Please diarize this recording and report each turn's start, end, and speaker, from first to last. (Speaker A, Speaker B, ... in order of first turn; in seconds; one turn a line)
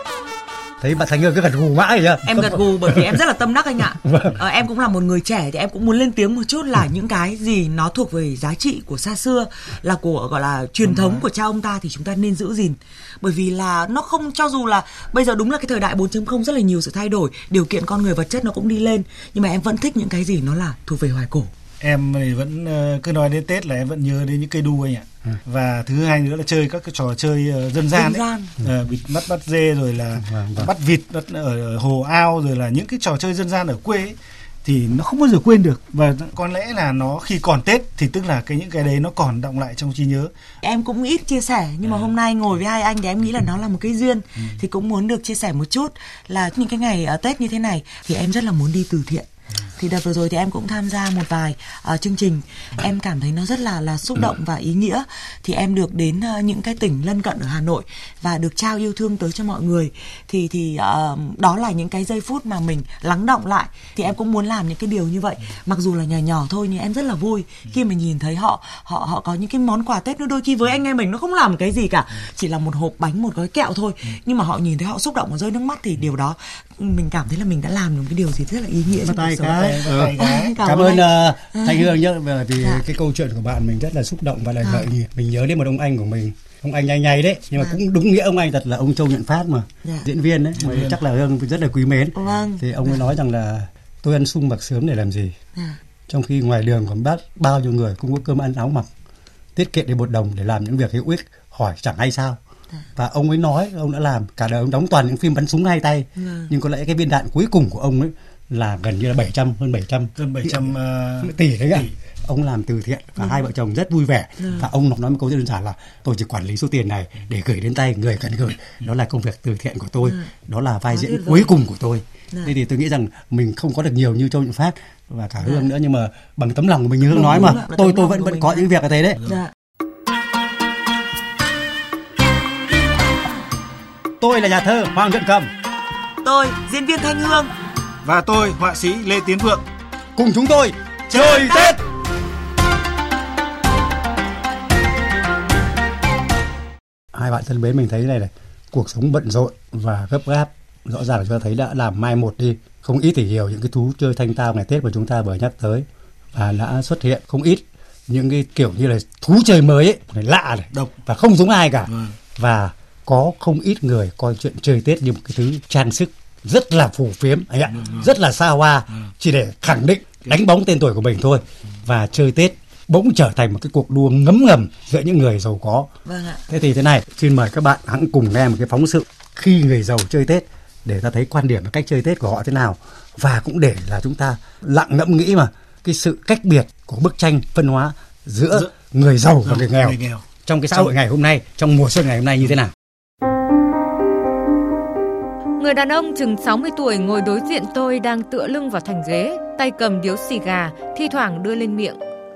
Speaker A: 0.8-3.0
Speaker B: 2.2-21.5
Speaker A: 4.0-4.3
Speaker C: 10.8-11.2
Speaker C: 21.8-40.3
Speaker B: 27.9-28.5
Speaker A: 30.2-30.7
Speaker B: 40.6-81.8
Speaker A: 79.0-95.4
Speaker C: 79.5-80.5
Speaker C: 90.6-91.0
Speaker B: 92.2-93.0
Speaker A: 96.1-98.9
Speaker A: 99.6-102.4
Speaker A: 103.0-129.2
Speaker B: 106.2-106.5
Speaker C: 110.2-111.9
Speaker B: 114.4-114.7
Speaker B: 120.9-121.5
Speaker B: 127.1-128.7
Speaker B: 129.2-129.5
Speaker A: 134.2-135.5
Speaker B: 136.2-137.5
Speaker C: 138.0-139.6
Speaker A: 140.2-141.8
Speaker C: 141.1-141.8
Speaker A: 147.1-175.9
Speaker C: 161.9-162.1
Speaker C: 167.7-168.1
Speaker B: 176.1-176.4
Speaker A: 176.5-192.7
Speaker C: 189.4-190.9
Speaker D: 195.6-202.0